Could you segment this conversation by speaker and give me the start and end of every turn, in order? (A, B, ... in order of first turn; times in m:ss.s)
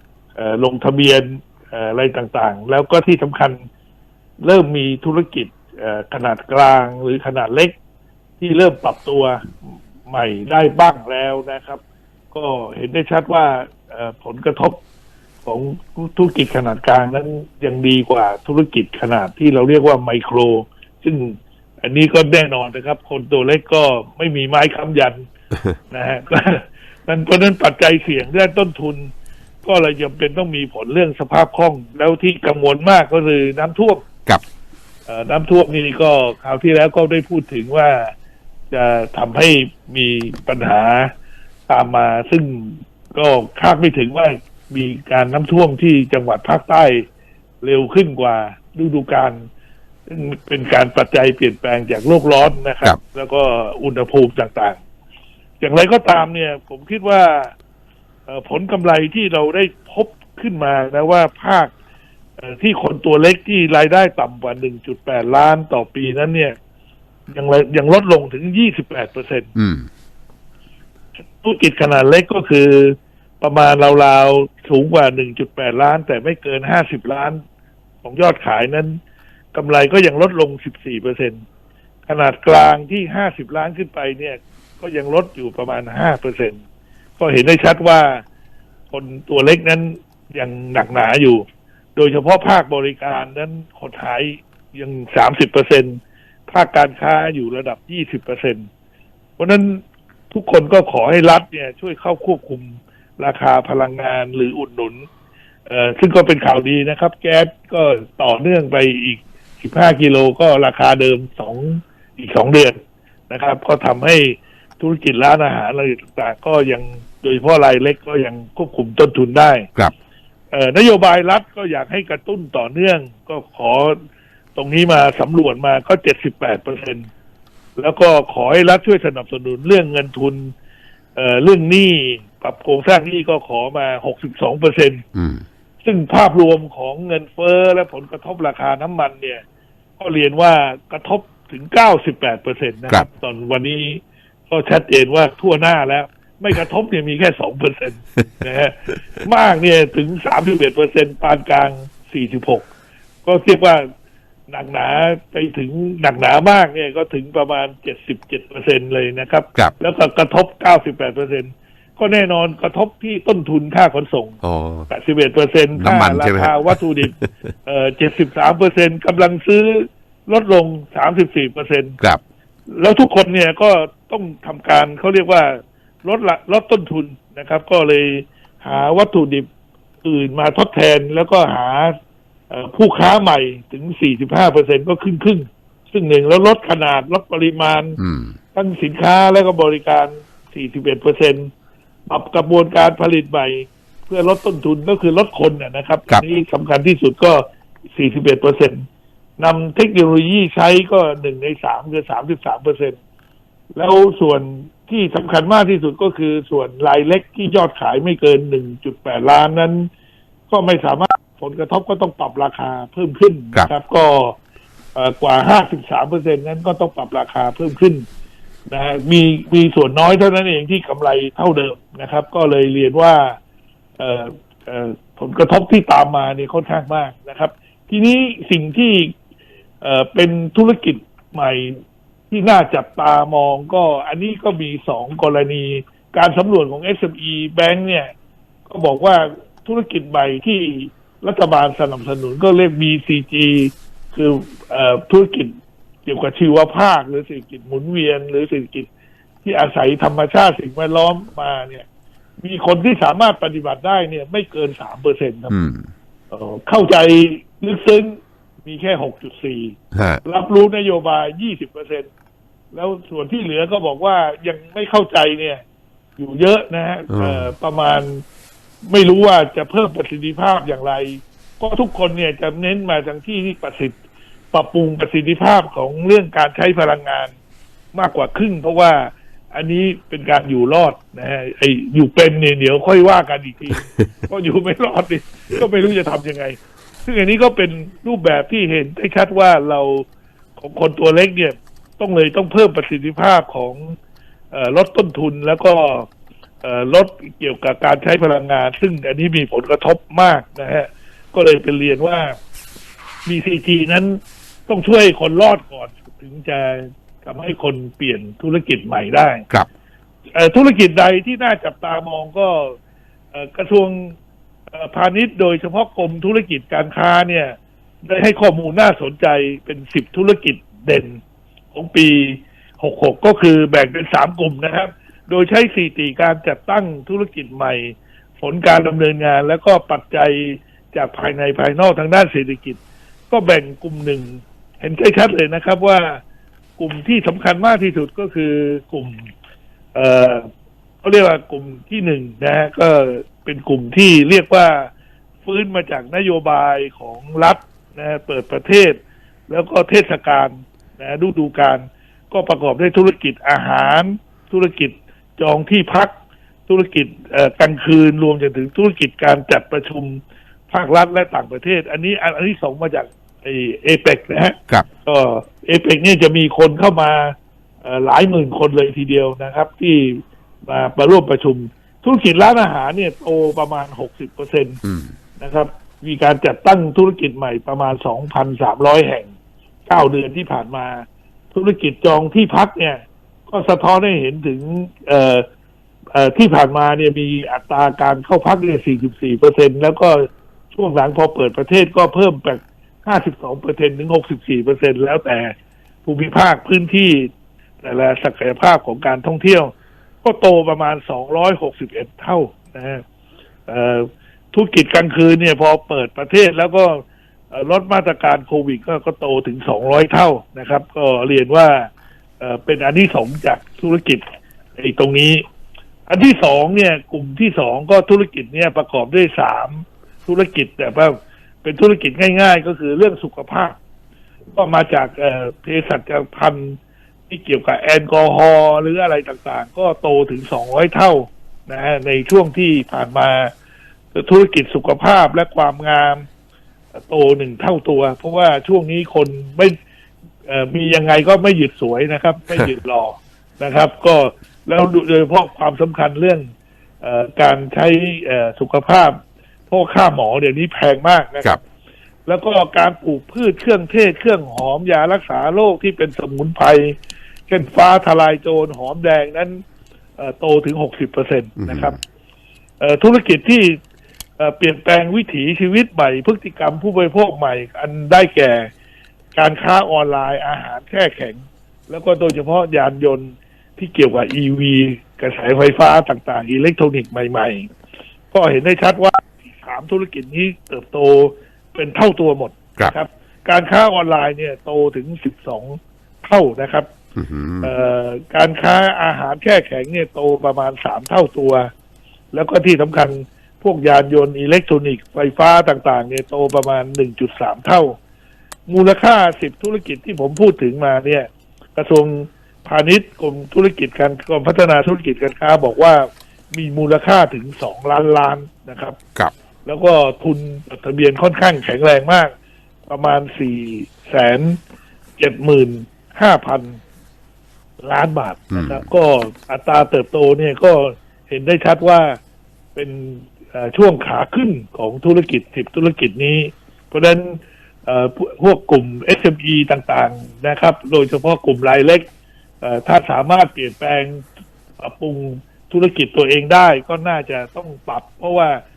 0:00.4-0:03.6 A
0:04.4-0:07.8 A
0:08.4-0:09.6 A
0:10.1-0:11.8 A
0:12.3-0:14.8 A
0:15.4-0:25.3 A
0:25.9-0:29.1 A
0:29.6-0:34.0 A
0:35.1-0:38.1 A
0:38.7-0:41.1 A
0:41.7-0:47.0 A
0:47.6-0:49.5 A
0:50.1-0:54.8 A
0:55.6-0:57.5 A
0:58.3-1:01.7 A
1:02.4-1:06.6 A
1:07.3-1:09.5 A
1:09.6-1:09.8 B
1:11.4-1:17.4 A
1:18.0-1:19.0 A
1:19.5-1:21.4 A
1:22.1-1:26.6 A
1:27.2-1:28.2 A
1:28.9-1:38.7 A
1:39.4-1:45.1 A
1:45.7-1:59.7 A
2:00.5-2:04.0 A
2:04.6-2:07.1 A
2:07.8-2:10.5 A
2:11.2-2:15.0 A
2:15.2-2:15.4 B
2:15.8-2:19.4 A
2:20.0-2:32.7 A
2:33.2-2:33.9 A
2:34.5-2:52.0 A
2:44.4-2:44.9 B
2:45.8-2:47.3 B
2:52.7-2:59.5 A
3:00.0-3:02.0 A
3:02.5-3:08.0 A
3:08.5-3:11.5 A
3:12.1-3:18.8 A
3:19.4-3:23.0 A
3:23.8-3:29.9 A
3:30.5-3:34.4 A
3:35.0-3:38.1 A
3:38.7-3:43.4 A
3:44.0-3:49.1 A
3:49.8-3:51.8 A
3:52.3-3:58.1 A
3:58.7-4:05.5 A
4:06.0-4:08.9 A
4:09.4-4:11.9 A
4:12.4-4:15.6 A
4:15.5-4:15.8 B
4:16.3-4:22.1 A
4:19.9-4:20.2 B
4:22.7-4:25.6 A
4:26.2-4:28.2 A
4:27.1-4:27.5 B
4:28.8-4:34.0 A
4:34.5-4:37.4 A
4:37.9-4:50.1 A
4:50.6-4:54.0 A
4:54.5-4:56.1 A
4:56.6-5:02.4 A
5:03.3-5:09.4 A
5:10.3-5:12.8 A
5:13.3-5:14.2 A
5:14.7-5:21.2 A
5:21.7-5:32.8 A
5:33.3-5:36.2 A
5:36.8-5:39.3 A
5:39.9-5:40.5 A
5:41.0-5:44.9 A
5:45.4-5:56.1 A
5:56.7-6:14.8 A
6:15.4-6:19.3 A
6:19.9-6:25.4 A
6:26.1-6:35.5 A
6:36.0-6:43.0 A
6:43.7-6:55.4 A
6:56.1-7:03.8 A
7:04.5-7:06.8 A
7:07.3-7:13.5 A
7:14.1-7:16.3 A
7:16.9-7:19.8 A
7:20.5-7:26.5 A
7:27.0-7:29.2 A
7:29.7-7:31.6 A
7:32.3-7:39.6 A
7:40.2-7:42.0 A
7:41.6-7:41.9 B
7:42.8-7:43.8 A
7:44.4-7:48.7 A
7:49.3-7:57.7 A
7:58.3-8:06.9 A
8:07.2-8:07.7 B
8:07.6-8:11.7 A
8:12.3-8:18.0 A
8:18.7-8:29.0 A
8:29.6-8:32.3 A
8:32.9-8:34.6 A
8:35.2-8:36.8 A
8:37.8-8:42.2 A
8:38.5-8:38.8 B
8:42.8-8:52.1 A
8:52.6-8:54.2 A
8:54.8-8:58.6 A